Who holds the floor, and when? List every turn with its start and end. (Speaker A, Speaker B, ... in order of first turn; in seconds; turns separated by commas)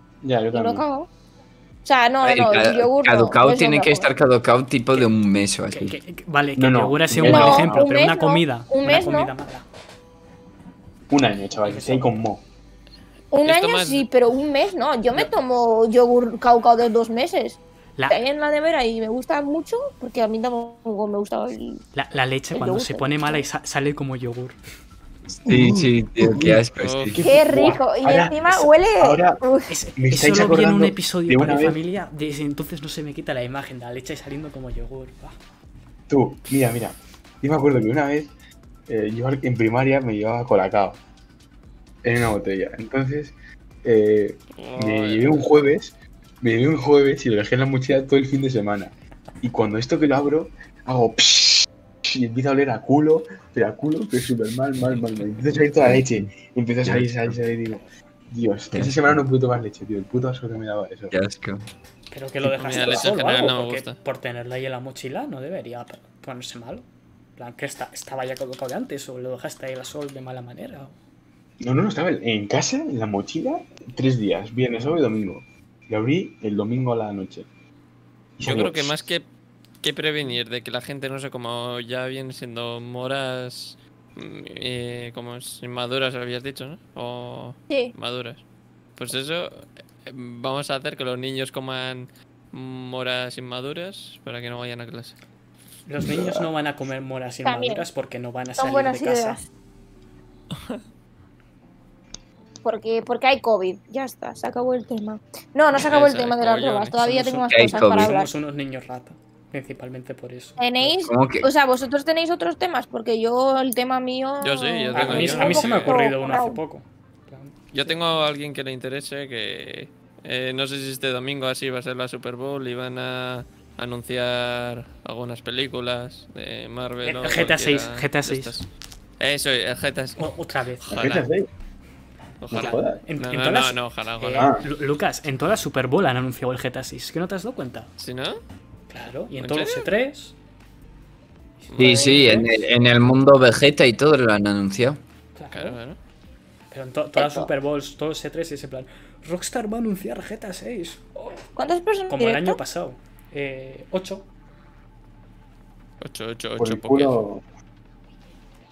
Speaker A: 0.2-0.8, Speaker B: 0.5-1.1, Speaker B: 1.8-4.1, Speaker C: 2.2-6.0, Speaker D: 5.7-9.6, Speaker A: 6.5-7.8, Speaker B: 7.2-9.3, Speaker A: 11.1-12.4, Speaker D: 11.6-12.1, Speaker B: 13.3-21.8, Speaker E: 13.4-14.1, Speaker D: 21.9-24.6, Speaker B: 22.5-23.4, Speaker C: 25.4-27.2, Speaker A: 25.4-29.4, Speaker E: 26.8-27.2, Speaker B: 27.2-29.7, Speaker D: 29.7-35.4, Speaker A: 29.9-31.8, Speaker A: 36.1-38.3, Speaker A: 38.9-41.0, Speaker A: 42.0-61.1, Speaker E: 44.5-45.5, Speaker C: 56.8-57.4, Speaker C: 58.7-59.1, Speaker C: 61.1-61.6, Speaker D: 62.1-66.8, Speaker A: 62.4-63.1, Speaker E: 62.5-64.0, Speaker D: 67.4-70.9, Speaker A: 71.6-77.5, Speaker A: 78.4-79.0, Speaker E: 78.4-79.2, Speaker E: 79.8-88.4, Speaker E: 89.0-95.2, Speaker D: 95.8-99.4, Speaker A: 96.0-96.5, Speaker B: 97.4-97.8, Speaker B: 98.6-99.4, Speaker B: 102.6-108.3, Speaker E: 105.9-107.0, Speaker D: 107.0-110.9, Speaker C: 107.5-108.1, Speaker B: 110.6-116.6, Speaker C: 111.0-111.5, Speaker E: 114.4-116.0, Speaker D: 114.9-118.0, Speaker E: 117.7-128.6, Speaker D: 127.0-128.7, Speaker E: 129.2-130.2, Speaker D: 130.2-131.0, Speaker E: 130.8-131.3, Speaker A: 130.9-131.5, Speaker E: 132.4-134.6, Speaker A: 132.5-133.0, Speaker D: 132.5-137.9, Speaker A: 134.3-134.7, Speaker E: 138.0-138.4, Speaker D: 138.9-140.3, Speaker E: 139.4-139.9, Speaker D: 141.6-142.6, Speaker E: 141.7-142.4, Speaker C: 141.8-145.0, Speaker D: 145.3-145.8, Speaker E: 145.5-146.0, Speaker D: 146.7-151.3, Speaker B: 147.2-147.5, Speaker B: 151.6-152.6, Speaker D: 152.1-154.2, Speaker E: 156.0-157.2, Speaker A: 156.6-157.4